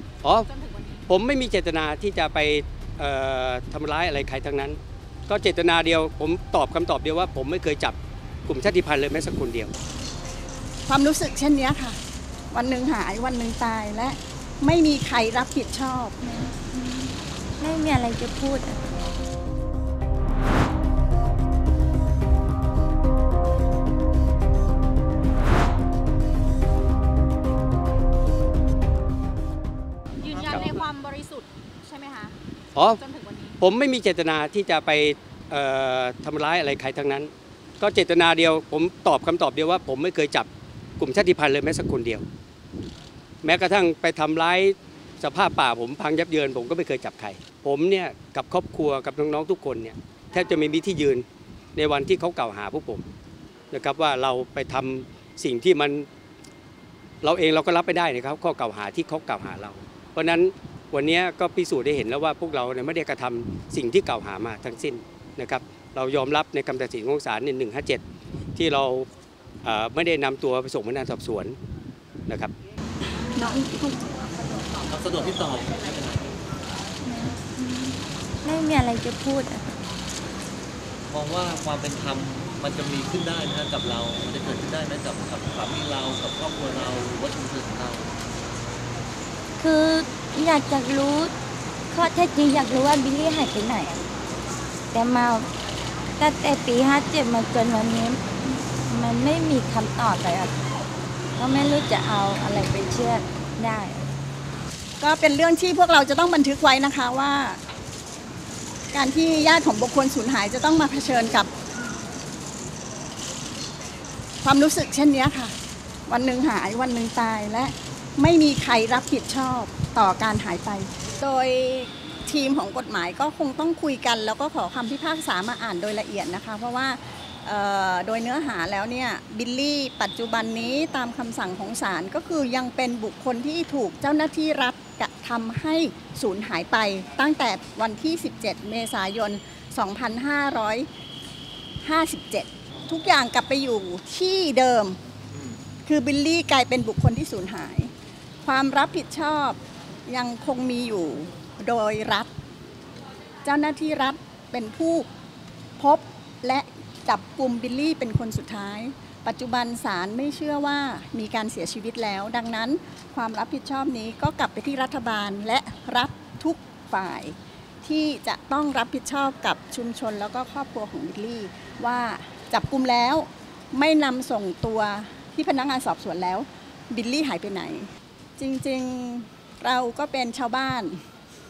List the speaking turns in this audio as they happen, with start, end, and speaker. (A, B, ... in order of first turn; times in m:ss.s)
0:00.3-0:01.0 A
0:01.1-0:09.7 B
0:10.9-0:12.0 C
0:12.5-0:16.2 C
0:16.2-0:18.8 D
0:30.2-0:33.6 A
0:32.7-0:33.0 B
0:33.6-0:40.5 B
0:41.0-0:42.2 B
0:43.4-0:53.0 B
0:53.7-0:56.1 B
0:57.2-1:08.0 B
1:08.5-1:09.1 B
1:09.6-1:11.6 B
1:12.3-1:12.5 B
1:14.8-1:16.4 E
1:17.0-1:19.8 D
1:21.1-1:28.1 E
1:29.6-1:31.3 D
1:31.9-1:34.0 D
1:34.9-1:35.5 D
1:36.2-1:40.5 D
1:41.4-1:44.1 D
1:45.0-1:47.6 C
1:48.9-1:51.5 C
1:54.4-1:55.5 C
1:56.1-2:20.9 C
2:21.8-2:25.0 C
2:25.8-2:27.9 C
2:28.4-2:32.3 C
2:33.4-2:35.1 C
2:35.8-3:01.0 C